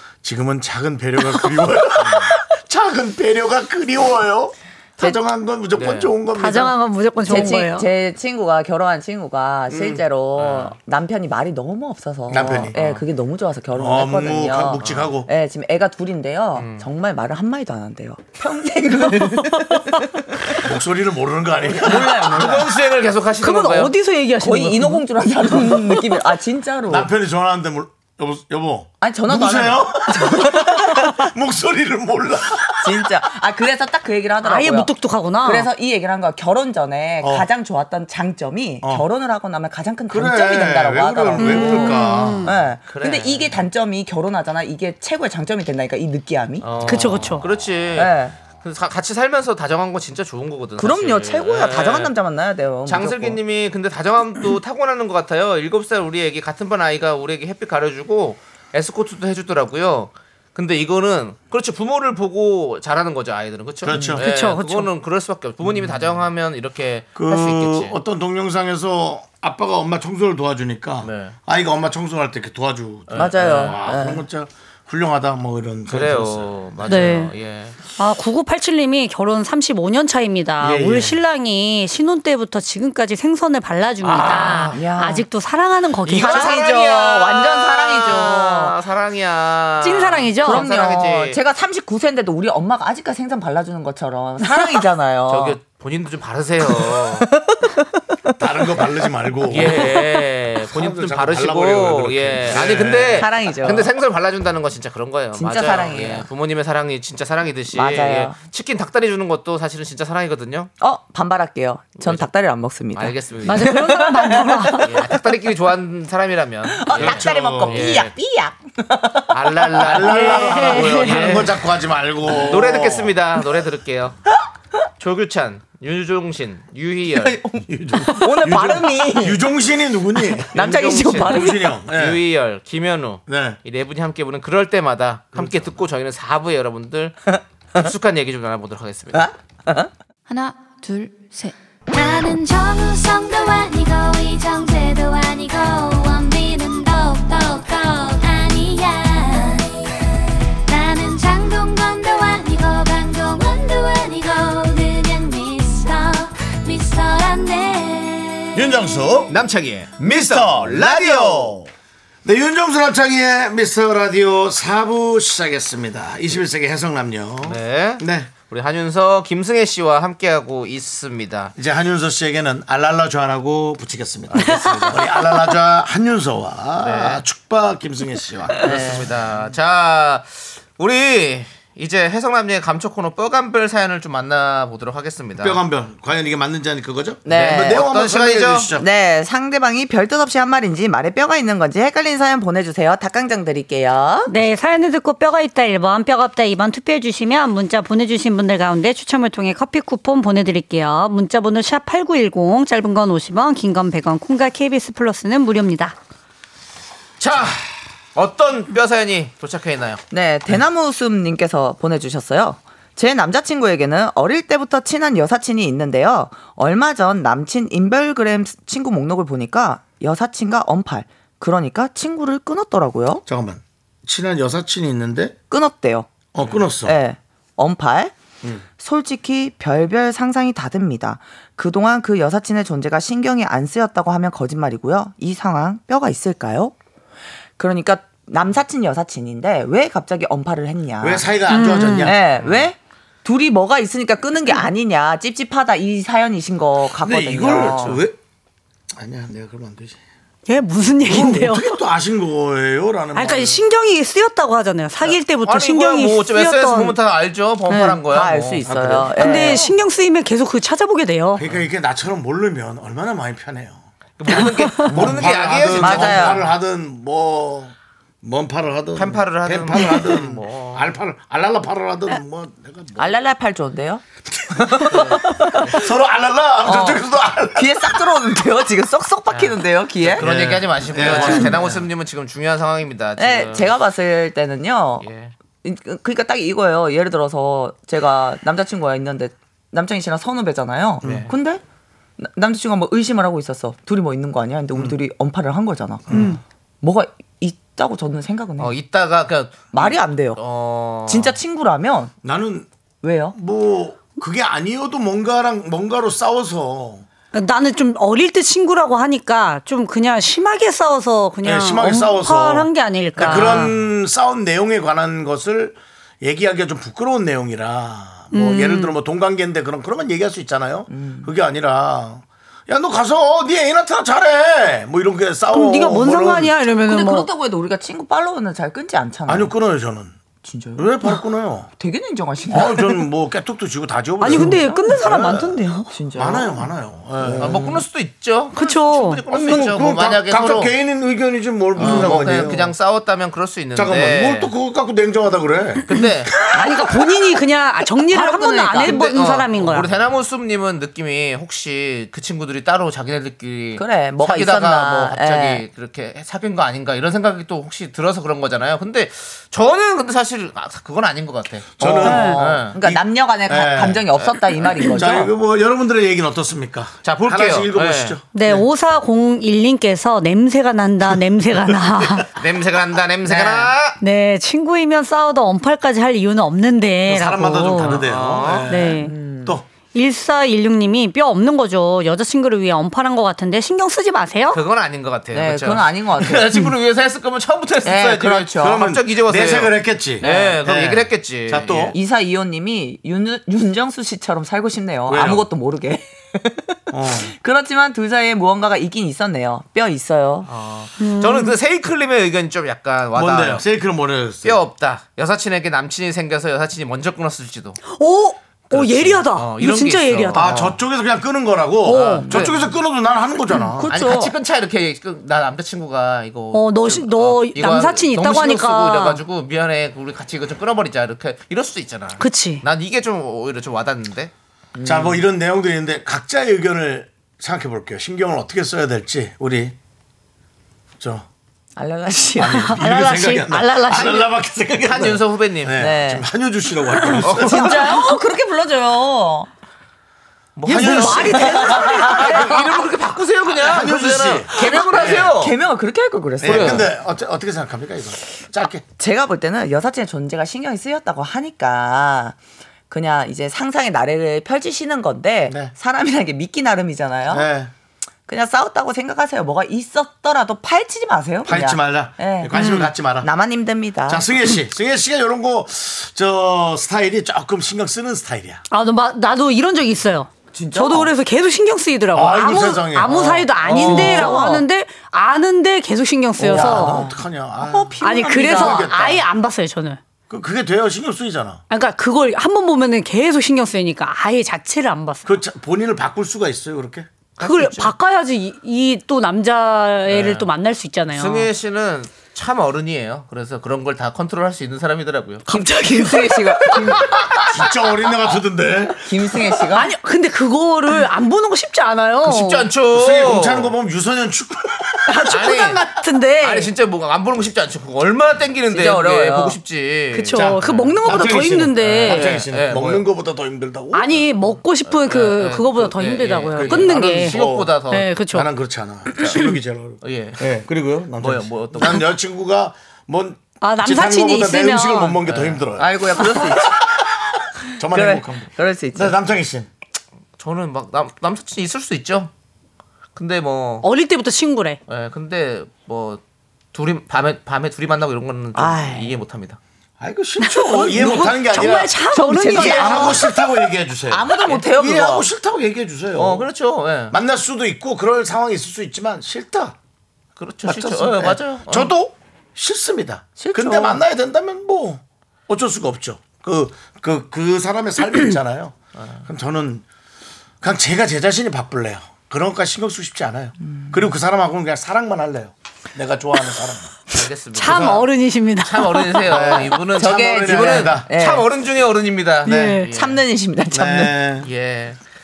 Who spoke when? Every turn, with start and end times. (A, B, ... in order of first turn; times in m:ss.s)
0:00.2-0:06.8 A
0:05.7-0:06.1 B
0:06.3-0:07.9 C
0:07.2-0:20.2 D
0:09.7-0:10.0 A
0:10.4-0:10.8 B
0:12.3-0:12.7 A
0:12.7-0:13.0 B
0:13.7-0:15.3 A
0:14.8-0:15.1 B
0:16.6-0:16.8 B
0:19.0-0:20.0 C
0:20.6-0:22.5 A
0:21.7-0:22.7 D
0:21.9-0:23.9 B
0:23.4-0:26.2 C
0:24.4-0:27.1 D
0:26.9-0:33.2 A
0:29.0-0:30.9 D
0:32.8-0:46.7 D
0:34.4-0:35.7 C
0:37.2-0:37.5 A
0:40.1-0:42.5 A
0:41.4-0:42.5 C
0:42.9-0:43.6 B
0:46.6-0:52.1 B
0:46.8-0:47.4 C
0:47.9-0:48.4 D
0:50.8-0:53.4 D
0:52.8-1:08.0 B
1:03.8-1:04.2 A
1:04.2-1:04.9 C
1:05.6-1:06.1 A
1:07.1-1:17.1 A
1:11.0-1:11.4 B
1:13.1-1:13.8 B
1:13.1-1:14.2 D
1:15.9-1:17.8 B
1:16.9-1:17.3 C
1:18.0-1:26.7 C
1:20.6-1:21.2 A
1:24.0-1:24.8 B
1:24.0-1:24.8 A
1:24.7-1:25.2 D
1:26.0-1:31.4 B
1:26.2-1:28.7 D
1:29.8-1:30.7 C
1:30.4-1:35.6 D
1:35.3-1:37.3 B
1:36.8-1:37.8 D
1:38.4-1:39.9 A
1:39.5-1:50.7 B
1:40.7-1:43.3 A
1:43.1-1:43.9 D
1:45.3-1:46.3 D
1:47.7-1:48.4 D
1:50.8-1:55.0 D
1:52.0-1:52.2 B
1:52.9-1:53.8 B
1:53.4-1:54.9 C
1:54.7-1:58.1 B
1:56.7-2:00.3 D
1:56.9-1:58.0 A
1:59.3-2:01.5 B
1:59.8-2:03.2 A
2:00.0-2:01.5 C
2:02.3-2:04.2 B
2:05.0-2:07.4 B
2:07.1-2:09.4 D
2:07.6-2:12.2 A
2:10.3-2:11.8 D
2:10.5-2:17.2 B
2:13.3-2:13.6 A
2:15.3-2:15.7 A
2:17.3-2:17.9 D
2:17.7-2:19.3 B
2:19.1-2:19.9 D
2:20.3-2:30.0 E
2:30.6-2:38.7 E
2:38.5-2:39.3 A
2:39.3-2:41.6 B
2:40.0-2:41.7 A
2:42.2-2:48.3 A
2:47.4-2:51.5 B
2:51.6-2:58.9 A
2:54.3-2:54.9 B
2:54.4-2:55.4 C
2:56.8-2:57.2 B
2:58.6-3:05.6 B
2:58.7-2:59.0 D
3:05.4-3:08.8 A
3:07.2-3:07.8 D
3:07.3-3:08.7 B
3:08.7-3:14.3 D
3:14.3-3:26.0 C
3:27.2-3:30.0 B
3:30.1-3:43.2 D
3:43.2-3:45.4 A
3:45.5-3:46.1 D
3:46.3-3:47.0 A
3:46.8-3:48.1 D
3:48.8-3:56.7 D
3:57.6-4:01.3 D
4:01.0-4:02.2 A
4:01.4-4:02.2 C
4:02.0-4:08.0 D
4:02.3-4:02.7 B
4:07.0-4:08.2 A
4:08.9-4:10.0 A
4:10.5-4:11.8 C
4:11.0-4:13.6 A
4:13.1-4:17.0 C
4:15.0-4:19.1 B
4:17.7-4:18.0 C
4:18.1-4:19.7 D
4:19.1-4:21.4 C
4:21.4-4:23.8 A
4:24.2-4:26.4 B
4:24.8-4:33.2 A
4:24.9-4:26.4 D
4:28.9-4:30.8 B
4:33.0-4:34.0 D
4:34.5-4:38.0 A
4:34.6-4:35.8 D
4:34.9-4:35.8 B
4:36.6-4:37.0 D
4:37.5-4:40.2 D
4:39.3-4:43.7 B
4:40.2-4:41.8 A
4:43.2-4:45.0 D
4:45.0-4:45.3 B
4:45.6-4:51.6 D
4:51.0-4:51.3 A
4:51.0-4:51.3 B
4:52.2-4:58.8 D
4:56.1-4:56.4 A
4:58.6-5:01.4 B
4:59.7-5:00.4 D
5:01.0-5:02.1 D
5:02.2-5:02.7 A
5:03.0-5:03.4 D
5:03.3-5:07.0 A
5:07.3-5:13.7 C
5:11.4-5:26.6 A
5:18.3-5:19.0 C
5:20.9-5:21.3 D
5:25.5-5:27.3 C
5:26.8-5:29.5 D
5:29.3-5:30.2 A
5:30.4-5:31.2 D
5:30.8-5:31.7 A
5:31.8-5:33.0 D
5:32.5-5:37.6 A
5:34.2-5:35.9 C
5:34.3-5:34.9 D
5:35.9-5:36.7 D
5:37.2-5:37.8 D
5:37.4-5:40.7 B
5:38.5-5:39.2 C
5:39.3-5:42.7 A
5:41.8-5:44.5 B
5:41.8-5:42.2 D
5:43.7-5:46.7 A
5:45.9-5:46.3 B
5:46.0-5:49.9 C
5:48.1-5:49.0 D
5:48.8-6:02.8 B
5:53.8-5:55.6 D
6:01.8-6:04.0 A
6:01.8-6:05.3 D
6:02.0-6:02.4 C
6:04.8-6:08.6 A
6:07.0-6:08.2 B
6:08.3-6:12.3 C
6:12.4-6:14.0 B
6:13.2-6:13.7 D
6:14.0-6:18.0 C
6:17.0-6:19.6 A
6:17.8-6:18.7 B
6:18.7-6:19.1 C
6:19.0-6:19.6 D
6:19.9-6:24.6 C
6:24.5-6:32.0 B
6:25.3-6:26.7 D
6:27.8-6:28.8 D
6:28.6-6:31.9 A
6:30.2-6:30.6 D
6:31.9-6:40.5 D
6:35.1-6:35.4 A
6:36.9-6:37.3 A
6:40.4-6:43.6 B
6:41.0-6:41.6 C
6:43.1-6:44.6 A
6:44.4-6:47.8 B
6:47.9-6:50.6 C
6:48.7-6:50.8 B
6:50.3-6:53.9 A
6:51.8-6:52.3 C
6:51.9-6:52.7 B
6:53.7-6:54.4 D
6:53.9-7:04.3 B
6:56.5-6:59.2 C
7:02.2-7:02.6 C
7:04.7-7:05.2 D
7:04.8-7:09.8 A
7:11.0-7:11.3 A
7:11.8-7:12.6 D
7:12.4-7:17.8 A
7:12.5-7:14.3 C
7:14.8-7:15.8 B
7:15.8-7:16.3 D
7:17.2-7:17.9 B
7:17.4-7:19.5 D
7:20.6-7:25.5 B
7:20.6-7:22.0 A
7:20.6-7:22.8 C
7:21.4-7:22.3 D
7:23.5-7:25.3 A
7:24.6-7:26.9 D
7:26.4-7:28.8 A
7:26.4-7:26.9 B
7:29.0-7:32.4 D
7:32.9-7:37.5 D
7:35.5-7:35.7 A
7:37.3-7:37.7 A
7:38.3-7:42.6 D
7:41.4-7:43.3 A
7:42.5-7:42.9 C
7:43.1-7:44.3 D
7:44.1-7:48.6 A
7:48.7-7:57.0 C
7:50.5-7:51.1 D
7:52.1-7:54.3 A
7:53.7-7:54.6 D
7:56.4-7:58.9 D
7:56.4-7:59.2 A
7:58.0-8:00.0 C
8:00.3-8:01.6 A
8:01.7-8:05.3 C
8:05.2-8:07.1 A
8:07.4-8:07.9 B
8:07.4-8:11.5 C
8:10.1-8:10.5 B
8:11.1-8:15.4 B
8:15.5-8:17.5 C
8:15.5-8:17.1 D
8:17.5-8:19.2 A
8:19.0-8:19.9 D
8:19.7-8:22.7 C
8:22.2-8:23.7 B
8:22.9-8:25.3 A
8:25.1-8:26.7 C
8:25.3-8:25.8 B
8:26.4-8:31.0 B
8:28.7-8:29.6 D
8:30.1-8:32.4 C
8:30.3-8:34.3 A
8:32.0-8:33.0 B
8:33.9-8:38.5 C
8:34.8-8:38.1 B
8:36.6-8:37.8 A
8:38.3-8:49.7 A
8:39.2-8:39.6 C
8:40.0-8:40.4 B
8:41.2-8:42.0 B
8:43.6-8:45.2 C
8:45.3-8:45.6 B
8:45.8-8:46.8 D
8:47.8-8:49.2 D
8:50.4-8:52.3 B
8:53.2-8:53.9 B
8:53.8-8:54.8 C
8:54.9-8:56.2 B
8:56.7-8:59.6 B
8:58.5-8:59.2 D
9:00.0-9:02.0 A
9:00.4-9:03.3 C
9:01.0-9:01.3 D
9:02.1-9:03.4 D
9:02.5-9:06.5 A
9:04.1-9:05.3 D
9:06.1-9:07.1 B
9:07.1-9:09.8 A
9:10.4-9:11.9 B
9:10.6-9:19.8 A
9:13.4-9:14.0 D
9:18.9-9:19.2 B
9:20.6-9:27.0 A
9:27.1-9:28.1 B
9:27.5-9:29.3 C
9:28.6-9:33.2 B
9:29.3-9:31.1 A
9:29.9-9:31.5 D
9:32.4-9:32.9 C
9:32.5-9:32.8 A
9:32.9-9:34.2 D
9:33.7-9:34.5 A
9:34.4-9:35.0 B